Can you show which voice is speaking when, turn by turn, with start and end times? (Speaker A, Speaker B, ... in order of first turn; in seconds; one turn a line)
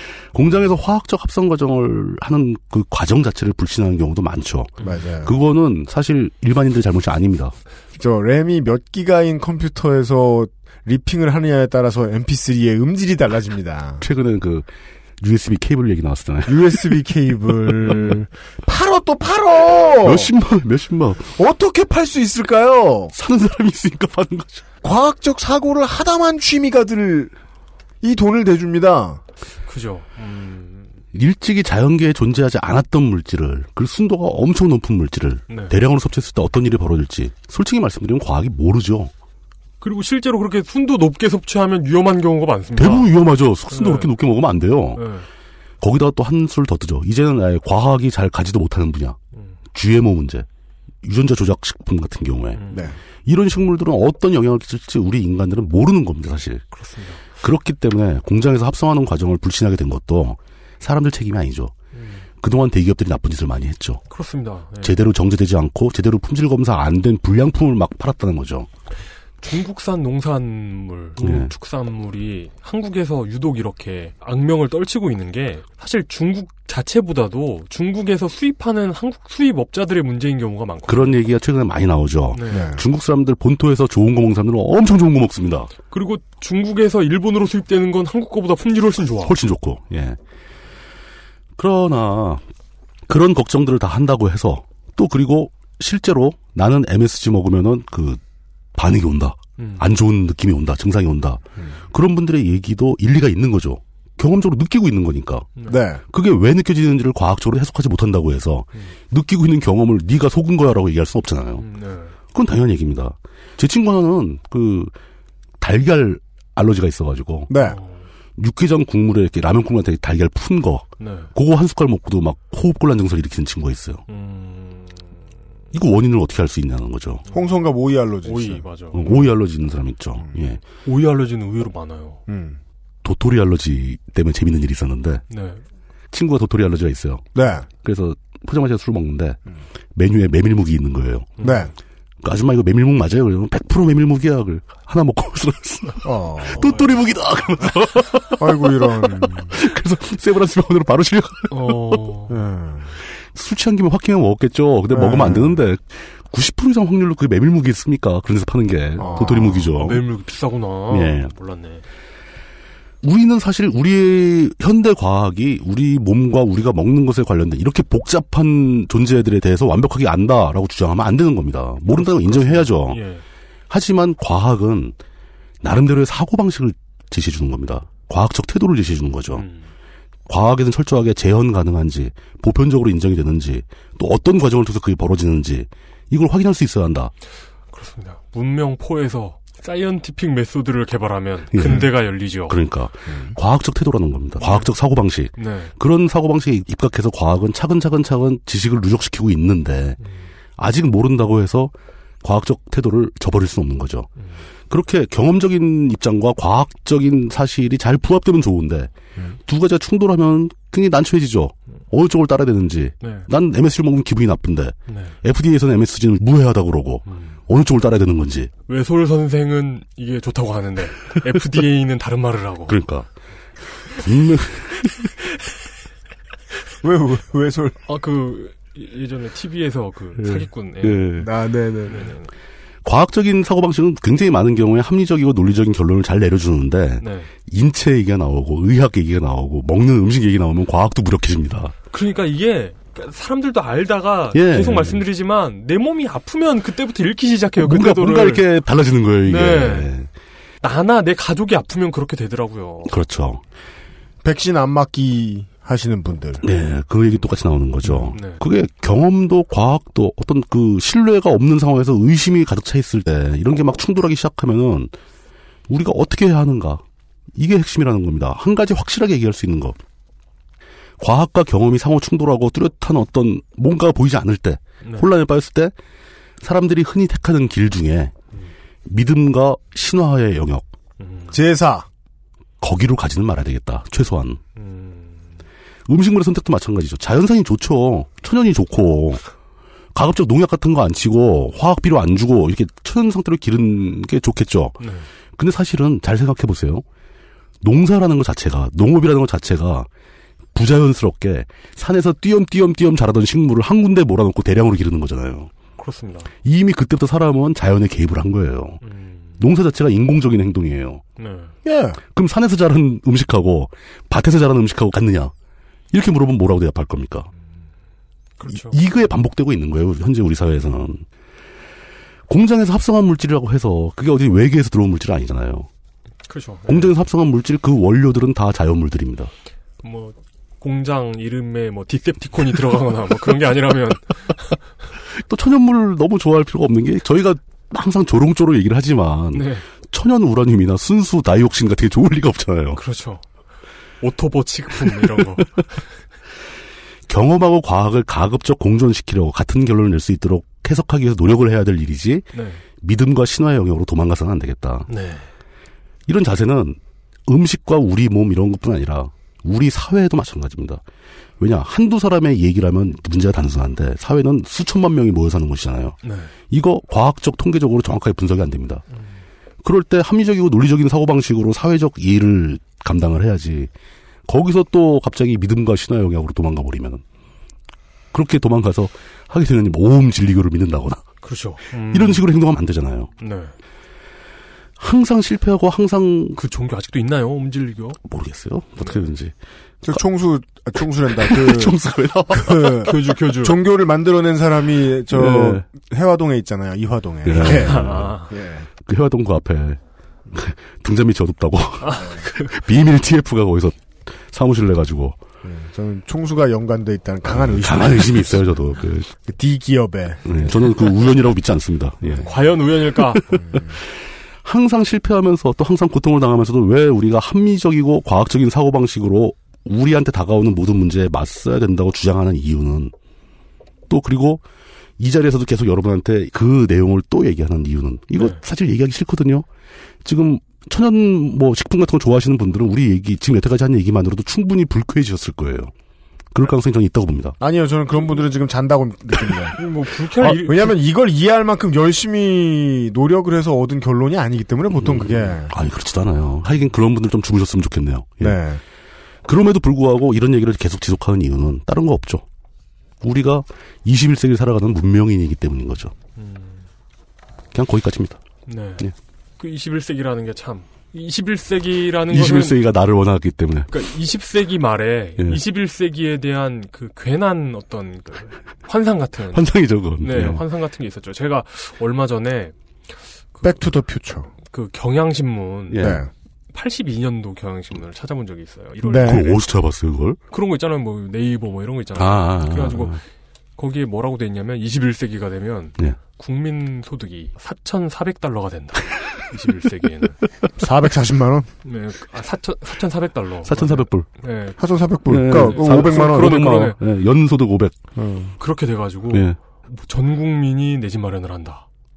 Speaker A: 0.3-7.5
Speaker B: 4.8-5.3
Speaker B: 8.0-14.0
Speaker A: 14.0-14.7
Speaker A: 15.2-17.0
Speaker B: 16.5-20.3
Speaker A: 17.8-18.1
Speaker A: 20.0-21.3
Speaker B: 21.4-23.1
Speaker A: 23.1-24.6
Speaker B: 24.8-27.3
Speaker B: 28.0-29.2
Speaker C: 29.7-30.9
Speaker A: 31.1-39.1
Speaker C: 35.5-35.7
Speaker C: 39.8-43.1
Speaker A: 42.8-45.0
Speaker C: 43.7-44.1
Speaker C: 45.0-45.3
Speaker A: 45.8-49.2
Speaker A: 49.7-50.5
Speaker A: 51.0-52.6
Speaker C: 52.5-52.9
Speaker A: 53.3-56.6
Speaker C: 56.7-57.2
Speaker A: 57.4-61.7
Speaker C: 61.9-62.2
Speaker A: 62.4-64.0
Speaker C: 64.1-65.0
Speaker A: 64.8-68.7
Speaker C: 69.4-81.2
Speaker A: 71.2-71.5
Speaker A: 80.9-85.7
Speaker C: 82.3-82.7
Speaker B: 82.5-82.8
Speaker C: 85.9-89.3
Speaker A: 89.2-90.2
Speaker A: 91.6-92.4
Speaker A: 93.1-98.2
Speaker A: 98.8-105.5
Speaker C: 99.6-99.8
Speaker B: 105.7-106.0
Speaker A: 106.1-111.7
Speaker C: 111.6-112.2
Speaker A: 112.3-114.9
Speaker A: 115.6-117.5
Speaker B: 117.5-117.8
Speaker C: 117.6-118.1
Speaker A: 118.4-124.0
Speaker C: 121.0-121.3
Speaker C: 124.1-125.1
Speaker A: 125.7-127.2
Speaker B: 127.3-128.7
Speaker C: 128.2-129.1
Speaker A: 128.9-130.6
Speaker C: 130.8-132.2
Speaker B: 132.3-132.6
Speaker A: 133.0-135.2
Speaker C: 135.3-135.6
Speaker A: 136.1-139.4
Speaker B: 137.3-137.7
Speaker A: 139.9-141.3
Speaker C: 141.4-141.7
Speaker B: 141.4-141.7
Speaker A: 142.2-152.0
Speaker B: 146.0-146.8
Speaker B: 148.4-149.6
Speaker C: 151.5-152.4
Speaker B: 152.3-153.0
Speaker A: 153.3-160.1
Speaker B: 154.9-155.6
Speaker B: 159.0-159.7
Speaker C: 159.0-161.8
Speaker A: 160.9-161.3
Speaker A: 163.0-173.0
Speaker C: 171.9-173.2
Speaker A: 173.7-174.9
Speaker A: 175.6-179.4
Speaker C: 179.3-179.7
Speaker A: 180.3-187.1
Speaker C: 187.7-192.6
Speaker A: 191.5-200.0
Speaker B: 193.1-193.3
Speaker C: 194.4-194.7
Speaker C: 195.4-195.7
Speaker A: 200.6-201.7
Speaker A: 202.2-204.1
Speaker A: 204.7-208.9
Speaker A: 209.5-218.5
Speaker C: 213.0-213.3
Speaker C: 214.9-215.2
Speaker C: 217.1-217.4
Speaker C: 218.7-222.8
Speaker A: 222.7-223.1
Speaker A: 223.9-225.1
Speaker B: 226.8-227.8
Speaker C: 227.9-231.1
Speaker A: 230.2-231.3
Speaker B: 231.2-232.1
Speaker C: 231.9-232.3
Speaker A: 232.8-241.7
Speaker C: 237.0-237.3
Speaker C: 241.9-248.4
Speaker A: 244.3-245.0
Speaker A: 247.6-250.1
Speaker C: 249.3-249.9
Speaker C: 250.6-252.9
Speaker A: 252.9-253.4
Speaker B: 254.2-256.4
Speaker A: 256.4-264.9
Speaker C: 257.9-258.4
Speaker A: 265.7-266.8
Speaker A: 267.4-269.8
Speaker A: 271.0-275.7
Speaker C: 274.8-275.1
Speaker A: 276.4-278.1
Speaker A: 278.9-280.7
Speaker C: 281.0-281.4
Speaker B: 281.3-281.9
Speaker A: 282.6-284.4
Speaker C: 284.6-285.4
Speaker A: 285.9-289.2
Speaker A: 289.9-294.8
Speaker C: 294.8-295.1
Speaker A: 295.4-296.8
Speaker A: 297.6-299.9
Speaker A: 300.6-305.5
Speaker C: 305.8-306.3
Speaker A: 306.4-308.8
Speaker C: 308.8-309.4
Speaker A: 309.4-311.0
Speaker C: 311.2-311.5
Speaker B: 311.6-312.0
Speaker A: 312.1-315.3
Speaker A: 315.9-317.3
Speaker C: 318.4-318.8
Speaker A: 318.5-321.0
Speaker A: 322.3-325.7
Speaker C: 326.3-326.9
Speaker A: 326.7-329.3
Speaker C: 329.8-334.6
Speaker A: 335.2-342.8
Speaker C: 339.3-339.6
Speaker C: 342.8-343.2
Speaker C: 344.0-345.6
Speaker A: 347.1-352.3
Speaker C: 352.3-352.6
Speaker A: 352.8-354.9
Speaker C: 354.9-355.3
Speaker A: 356.1-360.8
Speaker A: 361.4-366.0
Speaker C: 366.0-366.3
Speaker A: 366.5-368.8
Speaker A: 369.6-373.7
Speaker A: 374.3-377.0
Speaker A: 378.1-381.1
Speaker C: 381.2-382.3
Speaker A: 381.9-383.1
Speaker C: 383.2-383.5
Speaker A: 384.8-386.4
Speaker C: 386.4-388.0
Speaker A: 388.1-389.3
Speaker C: 388.8-389.1
Speaker B: 389.8-391.8
Speaker A: 391.2-392.9
Speaker B: 392.3-398.7
Speaker C: 392.8-393.6
Speaker A: 395.1-395.6
Speaker A: 397.2-398.1
Speaker C: 397.5-398.3
Speaker A: 398.9-399.8
Speaker A: 400.3-405.2
Speaker C: 401.8-402.6
Speaker B: 405.4-408.4
Speaker A: 407.3-409.1
Speaker B: 409.3-410.4
Speaker A: 410.3-412.3
Speaker C: 412.2-413.4
Speaker A: 413.0-413.9
Speaker B: 413.3-413.8
Speaker A: 414.4-422.9
Speaker A: 423.9-424.4
Speaker A: 425.0-429.5
Speaker A: 430.0-435.7
Speaker A: 436.3-437.4
Speaker B: 437.4-439.6
Speaker C: 439.6-440.8
Speaker B: 440.2-445.5
Speaker A: 444.8-448.4
Speaker B: 448.2-448.6
Speaker A: 449.3-452.2
Speaker A: 453.0-455.9
Speaker C: 456.2-456.7
Speaker A: 457.5-458.2
Speaker C: 458.5-458.9
Speaker C: 459.4-462.6
Speaker A: 462.1-463.7
Speaker C: 463.7-472.5
Speaker A: 469.3-470.4
Speaker B: 473.4-474.3
Speaker C: 474.5-476.0
Speaker A: 475.7-476.0
Speaker B: 475.8-476.1
Speaker C: 476.5-479.4
Speaker B: 478.8-479.2
Speaker A: 479.0-480.2
Speaker C: 480.3-483.0
Speaker A: 481.9-483.0
Speaker C: 483.6-490.2
Speaker B: 490.6-491.5
Speaker C: 491.6-494.6
Speaker A: 493.4-494.1
Speaker B: 494.6-496.6
Speaker A: 495.1-497.8
Speaker C: 495.3-496.8
Speaker B: 498.0-498.4
Speaker C: 498.4-501.6
Speaker A: 499.1-499.4